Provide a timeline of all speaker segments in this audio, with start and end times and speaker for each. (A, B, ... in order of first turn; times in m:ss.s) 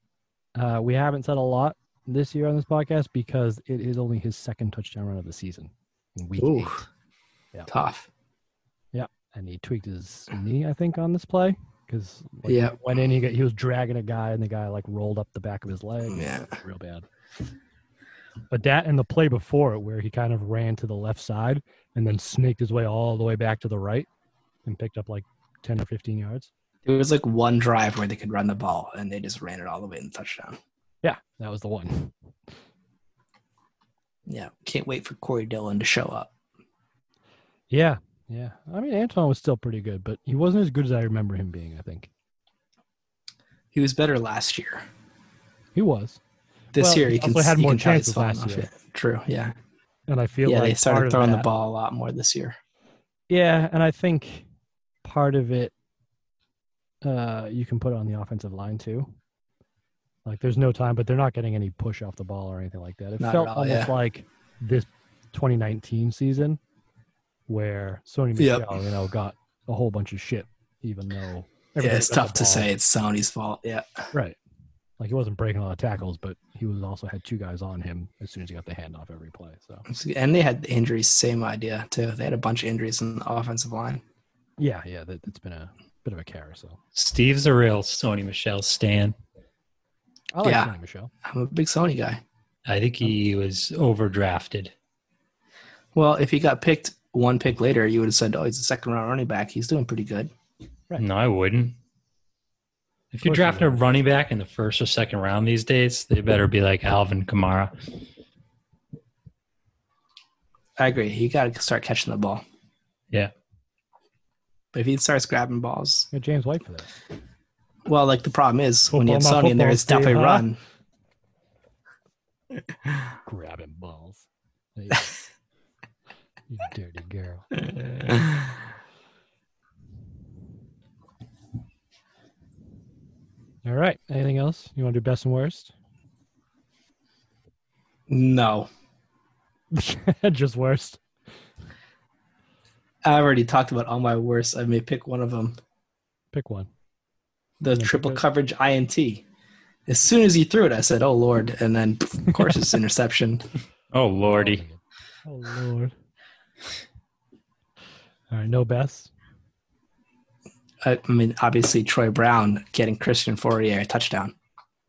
0:00.6-0:06.8 A
0:06.4-0:06.8 B
0:07.7-0:08.1 B
0:08.9-0:17.0 A
0:12.5-0:12.7 B
0:16.1-0:16.5 B
0:18.5-0:24.1 A
0:24.6-0:26.5 A
0:26.8-0:30.6 B
0:31.0-0:32.1 A
0:34.3-0:36.3 B
0:37.7-0:42.1 A
0:43.7-0:44.8 B
0:45.7-0:46.2 A
0:46.7-0:49.6 B
0:46.8-0:48.7 A
0:50.1-0:51.5 A
0:50.4-0:52.6 B
0:53.3-0:54.4 A
0:55.0-0:55.7 A
0:57.0-0:59.1 A
1:00.2-1:06.6 A
1:03.2-1:03.9 B
1:07.5-1:12.7 A
1:08.4-1:08.8 B
1:11.8-1:14.1 B
1:15.0-1:19.8 A
1:19.9-1:24.0 B
1:24.6-1:26.8 A
1:26.9-1:29.1 C
1:30.3-1:31.1 A
1:30.4-1:30.7 B
1:31.2-1:32.2 B
1:32.7-1:34.7 C
1:35.9-1:40.3 B
1:41.0-1:41.8 C
1:43.1-1:47.7 C
1:43.2-1:43.8 A
1:50.8-1:52.4 B
1:54.7-1:56.1 B
1:56.1-1:56.9 A
1:57.9-2:00.6 B
1:58.9-2:00.4 A
2:03.2-2:05.1 A
2:06.5-2:07.6 A
2:13.6-2:15.7 A
2:18.1-2:18.7 B
2:19.7-2:21.0 A
2:23.0-2:25.6 B
2:26.3-2:26.7 A
2:27.6-2:29.2 B
2:27.8-2:28.2 A
2:29.9-2:33.4 B
2:33.9-2:34.6 C
2:34.2-2:35.9 A
2:38.3-2:39.1 A
2:40.8-2:44.3 B